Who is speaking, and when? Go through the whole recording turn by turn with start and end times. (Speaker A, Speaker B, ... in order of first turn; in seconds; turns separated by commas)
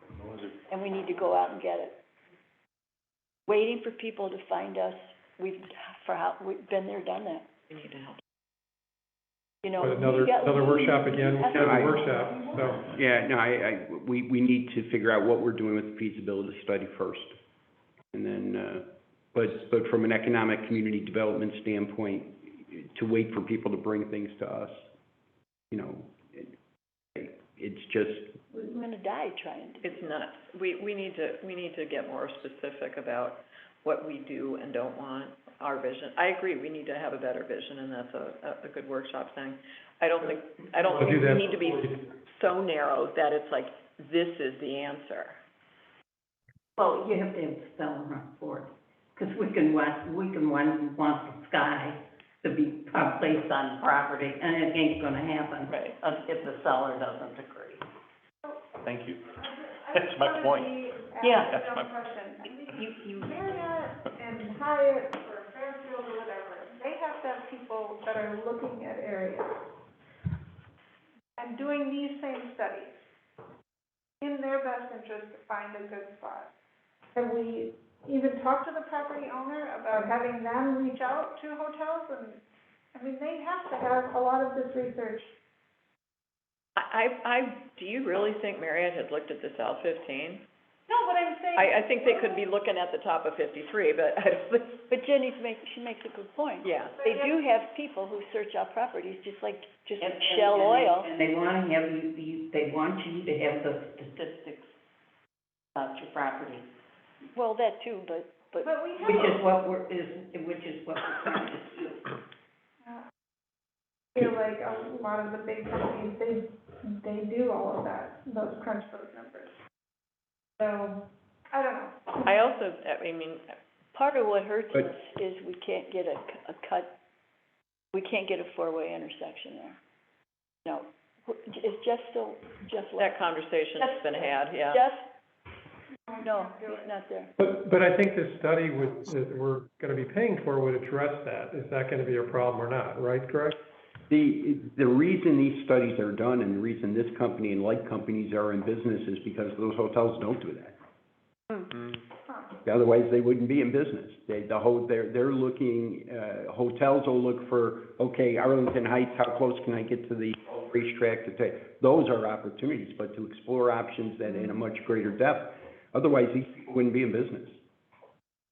Speaker A: 0.2-1.0, Speaker B: 0.7-2.0, Speaker B: 3.5-7.5, Speaker C: 7.7-8.2, Speaker B: 9.6-12.8, Speaker D: 9.8-12.9, Speaker E: 11.5-12.0, Speaker E: 12.8-17.3, Speaker E: 18.1-24.9, Speaker E: 25.7-26.5, Speaker E: 27.2-28.3, Speaker B: 28.5-30.1, Speaker C: 29.8-45.4, Speaker D: 40.8-42.1, Speaker F: 46.8-57.8, Speaker C: 55.7-56.0, Speaker A: 58.8-62.1, Speaker G: 59.3-69.6, Speaker F: 61.2-61.6, Speaker F: 62.7-63.5, Speaker G: 71.4-72.9, Speaker G: 74.2-76.5, Speaker G: 77.1-82.4, Speaker G: 82.9-85.3, Speaker C: 86.8-90.4, Speaker G: 90.9-92.5, Speaker C: 91.5-94.8, Speaker B: 94.9-101.1, Speaker C: 96.6-97.0, Speaker G: 97.0-97.4, Speaker F: 100.0-104.7, Speaker F: 105.8-106.7, Speaker B: 107.3-108.7, Speaker G: 108.6-109.4, Speaker F: 109.0-112.1, Speaker G: 114.2-119.5, Speaker G: 120.6-122.3, Speaker C: 122.2-123.5, Speaker B: 123.9-126.9, Speaker B: 127.9-129.8, Speaker B: 130.7-133.2, Speaker C: 133.0-134.8, Speaker B: 133.8-135.1, Speaker G: 136.1-136.9, Speaker B: 136.2-137.3, Speaker D: 137.4-143.6, Speaker E: 144.1-150.8, Speaker G: 152.3-152.6, Speaker E: 152.7-167.6